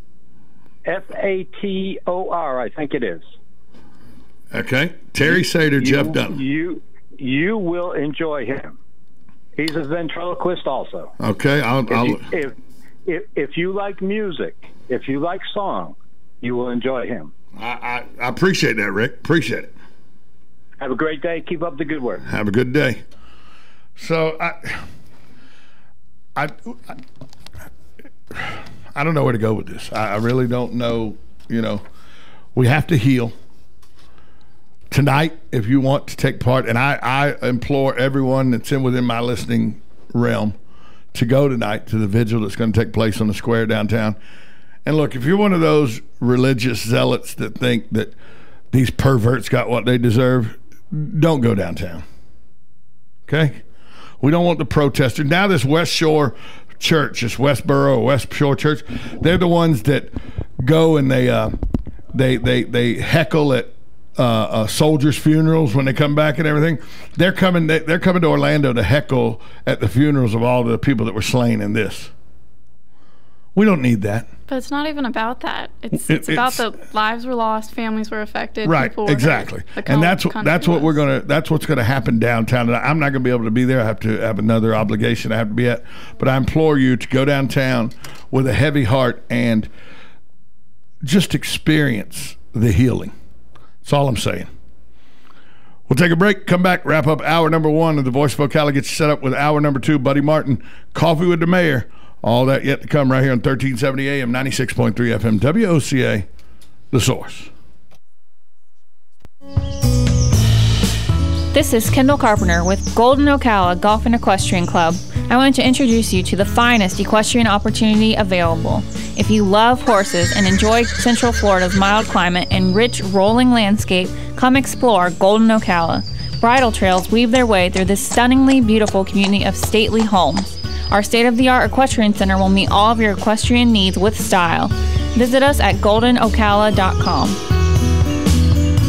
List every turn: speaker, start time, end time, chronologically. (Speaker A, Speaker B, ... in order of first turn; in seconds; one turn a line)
Speaker A: 0.9-3.2
Speaker B: 4.5-6.4
Speaker A: 5.8-8.7
Speaker A: 9.6-11.1
Speaker B: 11.2-12.2
Speaker A: 11.9-12.5
Speaker A: 13.1-17.3
Speaker B: 17.6-19.7
Speaker A: 20.8-22.2
Speaker B: 22.3-23.0
Speaker B: 24.0-24.8
Speaker B: 26.4-26.9
Speaker B: 28.3-31.8
Speaker B: 32.5-33.3
Speaker B: 34.9-40.5
Speaker B: 41.1-44.2
Speaker B: 44.9-48.1
Speaker B: 48.7-52.0
Speaker B: 53.3-53.6
Speaker B: 54.2-60.1
Speaker B: 60.6-61.5
Speaker B: 62.1-72.1
Speaker B: 73.5-74.3
Speaker C: 74.5-80.9
Speaker B: 75.9-76.6
Speaker B: 78.6-89.7
Speaker B: 91.0-93.1
Speaker B: 93.8-94.5
Speaker B: 95.9-106.3
Speaker B: 106.9-107.5
Speaker D: 111.5-137.4